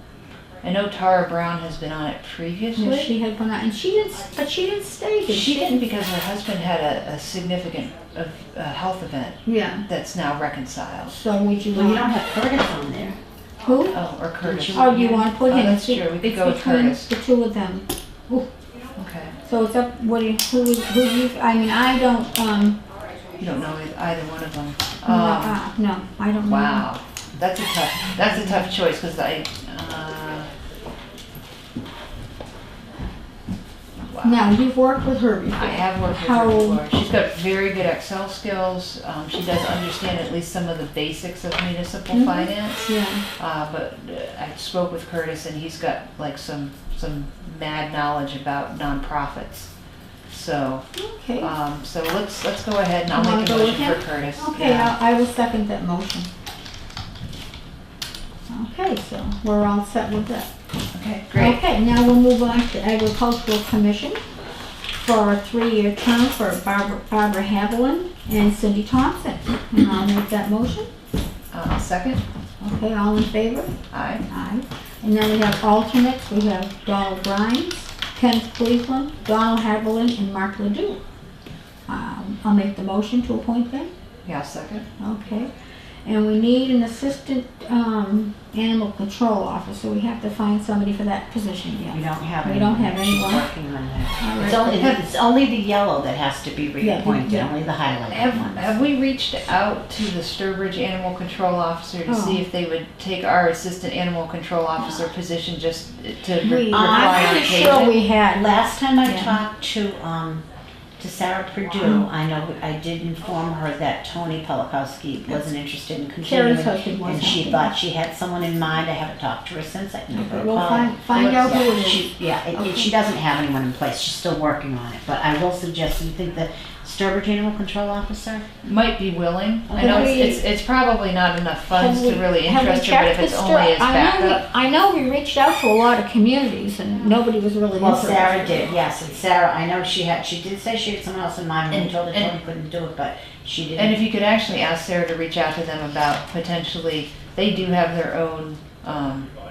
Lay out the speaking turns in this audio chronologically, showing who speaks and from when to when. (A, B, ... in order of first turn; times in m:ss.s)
0:00.6-0:03.1 A
0:02.8-0:05.8 B
0:05.3-0:11.1 A
0:09.4-0:09.8 B
0:11.1-0:12.1 B
0:11.7-0:13.2 C
0:13.6-0:14.0 B
0:13.9-0:17.1 A
0:14.4-0:15.3 C
0:14.7-0:18.5 B
0:19.0-0:19.3 A
0:19.4-0:22.8 B
0:23.4-0:25.6 A
0:25.1-0:26.9 B
0:26.4-0:30.5 A
0:34.1-0:34.4 A
0:34.2-0:36.8 B
0:35.6-0:49.7 A
0:42.1-0:43.2 B
0:50.3-0:50.8 A
0:50.9-0:51.5 B
0:51.4-0:54.9 A
0:53.1-0:56.3 B
0:58.5-1:00.5 B
1:00.9-1:01.6 A
1:01.3-1:04.2 B
1:05.0-1:10.9 B
1:11.5-1:12.2 A
1:12.6-1:13.8 B
1:13.9-1:14.2 A
1:14.3-1:21.0 B
1:21.9-1:23.9 B
1:24.2-1:24.8 A
1:25.0-1:25.5 B
1:26.0-1:33.5 B
1:31.9-1:38.8 C
1:34.2-1:35.0 B
1:36.8-1:37.5 B
1:38.1-1:47.9 A
1:42.1-1:42.4 B
1:46.4-1:48.5 B
1:46.7-1:50.4 C
1:49.0-1:49.4 B
1:51.0-2:08.4 C
1:56.2-1:57.7 B
2:00.1-2:02.9 B
2:01.1-2:01.6 A
2:08.6-2:14.4 A
2:09.7-2:10.2 C
2:09.8-2:10.4 B
2:11.7-2:18.7 B
2:17.8-2:24.0 C
2:21.7-2:22.3 A
2:23.8-2:29.3 A